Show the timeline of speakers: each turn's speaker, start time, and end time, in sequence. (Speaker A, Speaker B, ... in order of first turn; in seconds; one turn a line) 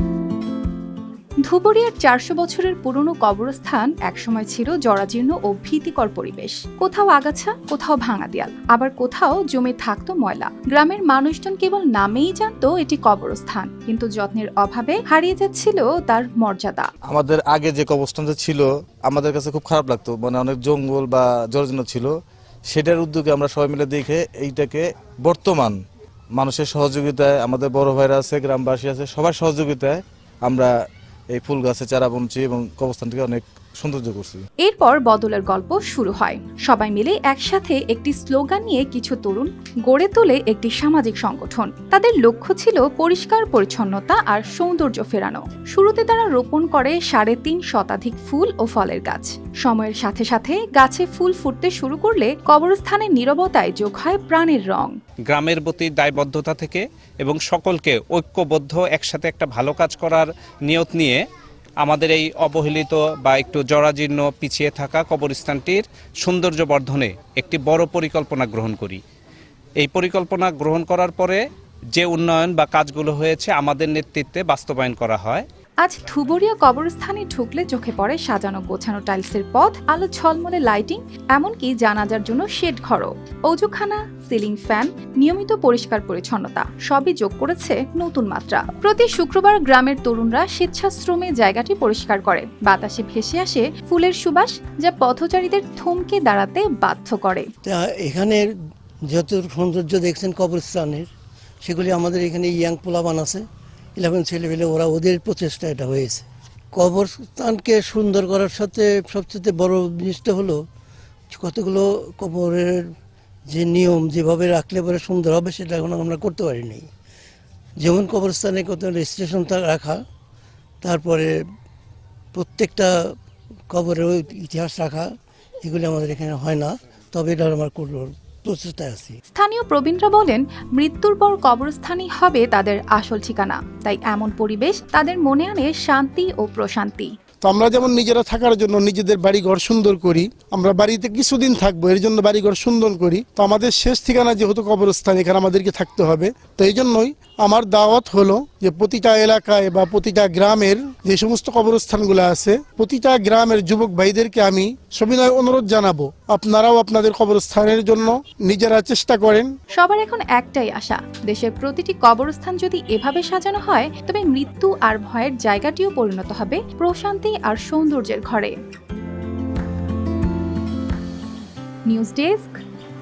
Speaker A: 1.4-16.9
Speaker B: 17.1-22.1
Speaker B: 22.7-25.7
Speaker B: 26.4-30.7
Speaker B: 31.3-34.4
Speaker A: 34.6-55.0
Speaker C: 55.3-61.2
Speaker C: 61.8-69.0
Speaker C: 69.8-71.4
Speaker C: 71.9-75.4
Speaker A: 75.8-97.5
Speaker D: 97.6-98.4
Speaker D: 99.1-101.1
Speaker D: 101.6-103.4
Speaker D: 104.0-110.6
Speaker D: 111.3-112.9
Speaker D: 113.5-116.9
Speaker D: 117.8-120.0
Speaker D: 120.8-121.3
Speaker D: 122.3-122.9
Speaker D: 123.7-125.1
Speaker D: 125.6-129.2
Speaker A: 129.3-137.1
Speaker E: 137.4-159.5
Speaker A: 159.8-168.6
Speaker A: 171.9-172.6